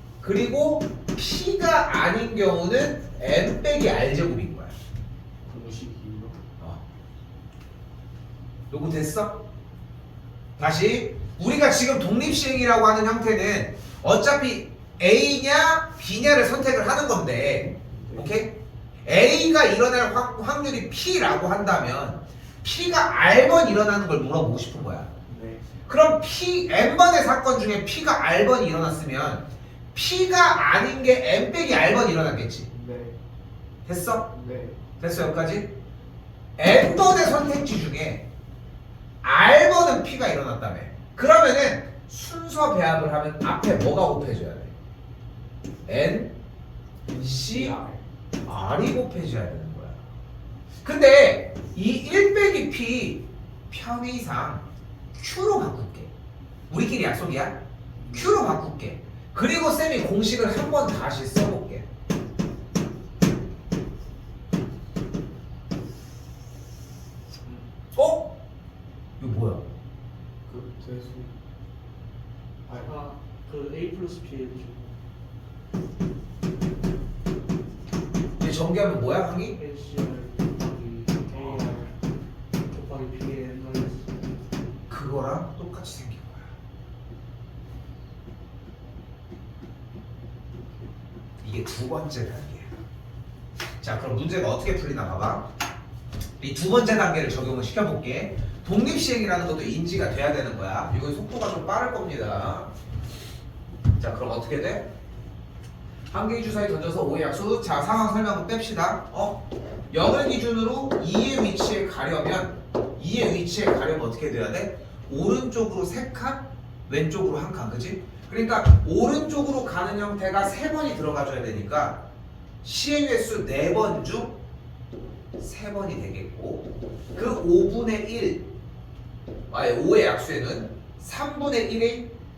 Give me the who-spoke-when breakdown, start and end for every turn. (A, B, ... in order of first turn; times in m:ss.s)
0:00.2-0:04.7 A
0:05.4-0:06.4 B
0:08.7-0:09.4 A
0:10.6-0:25.1 A
0:17.9-0:18.4 B
0:25.3-0:25.6 B
0:25.8-0:32.7 A
0:32.7-0:33.2 B
0:33.8-0:34.3 A
0:34.3-0:34.8 B
0:35.0-0:35.7 A
0:36.6-0:38.2 A
0:39.2-0:44.7 A
0:45.8-0:46.3 A
0:47.1-0:47.7 A
0:47.2-0:48.0 B
0:48.4-0:50.0 A
0:50.8-0:54.6 A
0:55.2-0:56.1 A
0:56.7-0:57.6 A
0:58.0-0:58.5 B
0:58.1-1:01.8 A
1:07.4-1:07.7 B
1:07.9-1:08.3 A
1:09.2-1:09.6 A
1:10.5-1:11.4 B
1:12.6-1:12.9 B
1:12.7-1:15.0 C
1:18.4-1:19.6 A
1:19.5-1:22.0 C
1:22.7-1:24.4 C
1:24.9-1:26.5 A
1:31.4-1:32.7 A
1:33.8-1:35.5 A
1:36.4-1:42.7 A
1:44.0-1:44.9 A
1:46.1-2:02.0 A
2:02.6-2:04.4 A
2:05.4-2:08.5 A
2:09.5-2:12.1 A